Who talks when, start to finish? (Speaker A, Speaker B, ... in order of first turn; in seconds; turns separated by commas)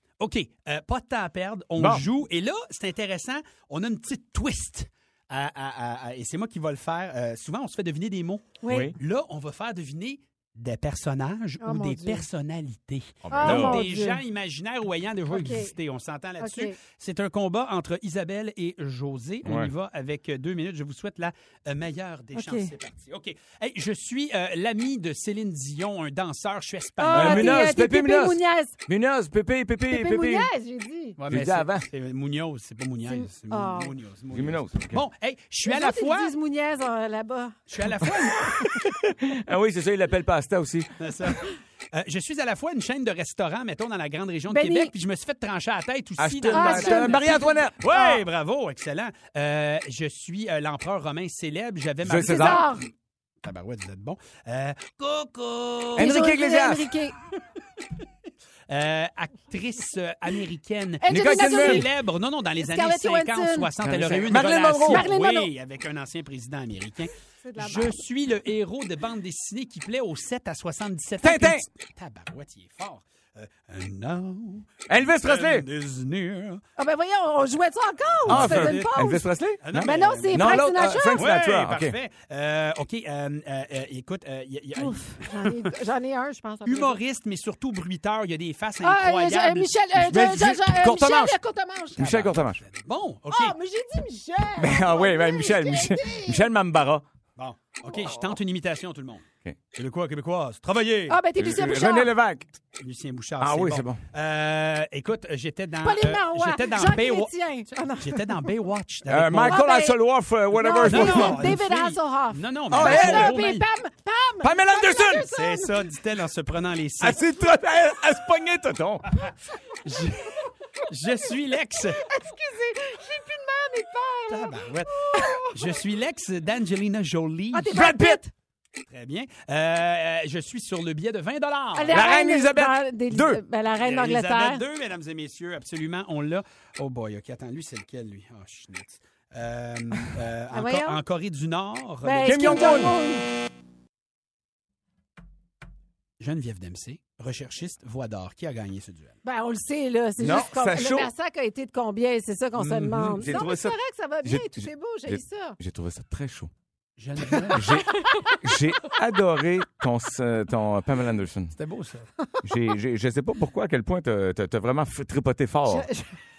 Speaker A: 0.2-27.6, Speaker B: 1.8-2.0, Speaker C: 8.6-8.9, Speaker B: 8.7-8.9, Speaker C: 11.6-12.2, Speaker B: 13.2-13.8, Speaker C: 13.3-14.2, Speaker C: 15.3-15.7, Speaker C: 16.4-16.8, Speaker B: 19.4-19.7, Speaker C: 22.4-22.7, Speaker C: 27.0-28.8, Speaker B: 27.1-30.5, Speaker C: 29.9-31.2, Speaker A: 31.2-36.4, Speaker B: 31.3-31.9, Speaker C: 33.1-33.9, Speaker B: 34.3-35.0, Speaker C: 35.6-37.6, Speaker A: 37.7-38.4, Speaker B: 38.0-40.9, Speaker A: 41.0-52.9, Speaker C: 44.5-44.9, Speaker B: 46.2-47.8, Speaker C: 46.5-48.2, Speaker B: 52.0-52.7, Speaker C: 52.3-52.9, Speaker A: 53.4-56.3, Speaker B: 56.0-56.9, Speaker C: 56.0-57.1, Speaker A: 58.7-76.6, Speaker C: 61.0-61.9, Speaker B: 61.1-61.9, Speaker C: 62.6-63.7, Speaker B: 63.8-65.1, Speaker C: 64.9-65.5, Speaker C: 67.4-68.0, Speaker B: 71.2-71.6, Speaker B: 74.9-75.7, Speaker C: 76.8-79.2, Speaker A: 78.2-79.0, Speaker B: 78.3-82.0, Speaker A: 79.6-85.7, Speaker C: 79.8-81.3, Speaker C: 84.8-87.0, Speaker A: 86.7-89.8, Speaker C: 88.8-92.2, Speaker B: 90.0-91.4, Speaker B: 92.0-92.6, Speaker A: 92.0-93.6, Speaker C: 93.3-96.5, Speaker B: 94.6-97.0, Speaker A: 97.4-101.2, Speaker C: 101.1-102.1, Speaker B: 101.4-102.6, Speaker A: 102.8-107.3, Speaker B: 103.4-104.0, Speaker C: 105.8-108.5, Speaker A: 108.0-109.6, Speaker B: 109.1-111.5, Speaker C: 109.5-110.0, Speaker C: 110.5-115.9, Speaker A: 110.7-113.7, Speaker B: 112.7-113.4, Speaker B: 114.4-115.3, Speaker A: 115.3-117.2, Speaker B: 117.0-119.3, Speaker A: 119.8-120.4, Speaker A: 120.9-122.0, Speaker C: 122.0-125.8, Speaker A: 124.3-127.8, Speaker C: 127.5-128.3, Speaker B: 127.7-128.2, Speaker A: 128.9-132.0, Speaker C: 131.8-134.6, Speaker B: 131.9-133.4, Speaker A: 133.8-142.9, Speaker C: 140.5-141.0, Speaker C: 142.0-143.3, Speaker B: 142.2-142.9, Speaker A: 146.2-149.2, Speaker C: 149.2-155.6, Speaker B: 150.2-151.1, Speaker A: 152.6-153.2, Speaker B: 153.2-156.5, Speaker A: 157.0-157.8, Speaker B: 157.5-161.6, Speaker A: 161.5-162.1, Speaker B: 162.4-165.9, Speaker C: 165.7-166.1